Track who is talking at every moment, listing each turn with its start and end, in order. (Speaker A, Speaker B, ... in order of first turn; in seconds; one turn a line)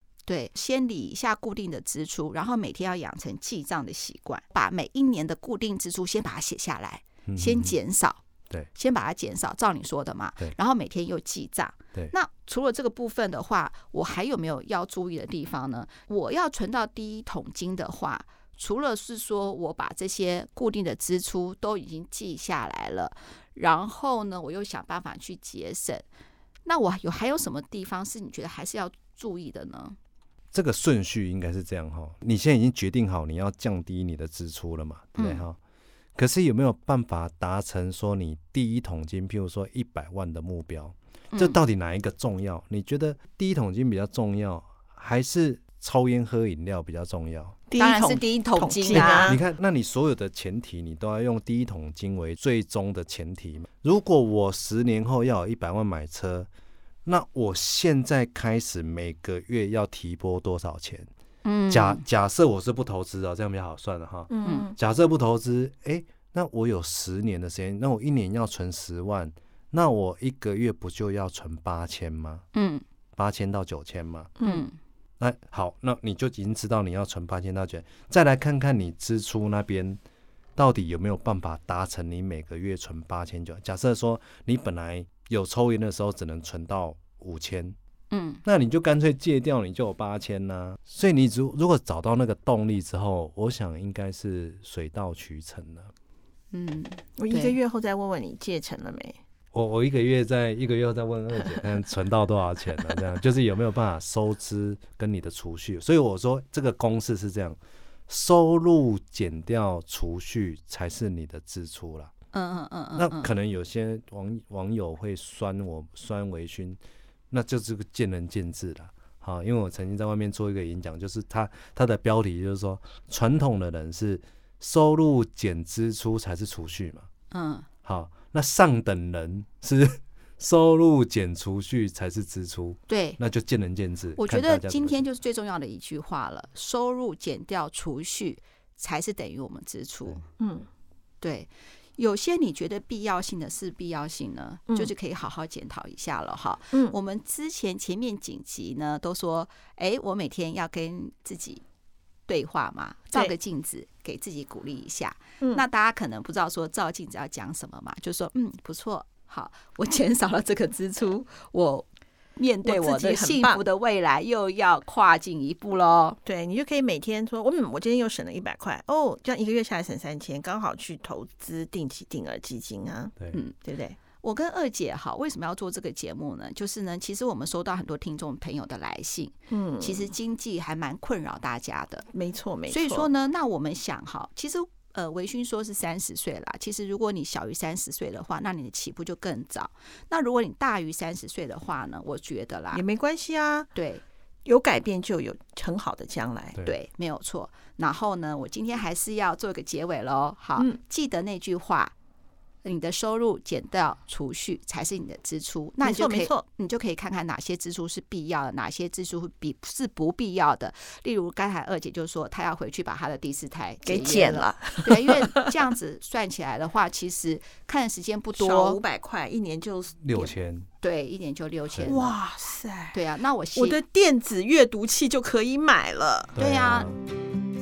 Speaker A: 0.2-8.2
Speaker B: 7.2-7.8
Speaker A: 8.7-26.1
Speaker A: 26.6-30.0
Speaker B: 30.5-35.6
Speaker A: 35.2-35.4
Speaker B: 36.1-47.6
Speaker A: 41.3-41.6
Speaker C: 47.7-49.4
Speaker A: 47.8-49.4
Speaker B: 48.9-56.5
Speaker B: 57.0-61.1
Speaker A: 61.4-62.0
Speaker B: 61.7-72.4
Speaker C: 64.3-64.8
Speaker A: 64.5-64.7
Speaker A: 72.5-72.8
Speaker B: 73.2-74.3
Speaker C: 74.4-74.7
Speaker A: 74.4-74.8
Speaker B: 75.2-80.0
Speaker B: 80.6-87.8
Speaker A: 88.1-88.4
Speaker B: 88.4-95.9
Speaker A: 96.5-97.6
Speaker C: 97.2-99.2
Speaker B: 99.5-112.1
Speaker A: 112.3-113.3
Speaker B: 113.0-116.8
Speaker B: 117.3-127.1
Speaker A: 127.3-127.7
Speaker B: 127.8-135.1
Speaker A: 132.9-133.2
Speaker A: 134.2-140.2
Speaker C: 140.4-140.7
Speaker A: 141.2-151.6
Speaker A: 152.3-166.2
Speaker C: 162.6-163.6
Speaker C: 166.2-174.0
Speaker A: 173.3-173.6
Speaker A: 174.2-182.1
Speaker C: 179.5-180.1
Speaker C: 182.1-183.1
Speaker A: 182.7-192.8
Speaker C: 192.7-193.7
Speaker A: 193.7-194.0
Speaker C: 194.4-196.6
Speaker A: 196.6-201.9
Speaker A: 202.6-218.8
Speaker C: 205.8-206.4
Speaker C: 213.8-215.5
Speaker C: 218.4-220.3
Speaker B: 220.0-220.7
Speaker A: 220.8-222.1
Speaker C: 221.8-223.0
Speaker A: 222.9-223.8
Speaker C: 223.5-226.3
Speaker B: 226.3-227.0
Speaker A: 226.4-226.9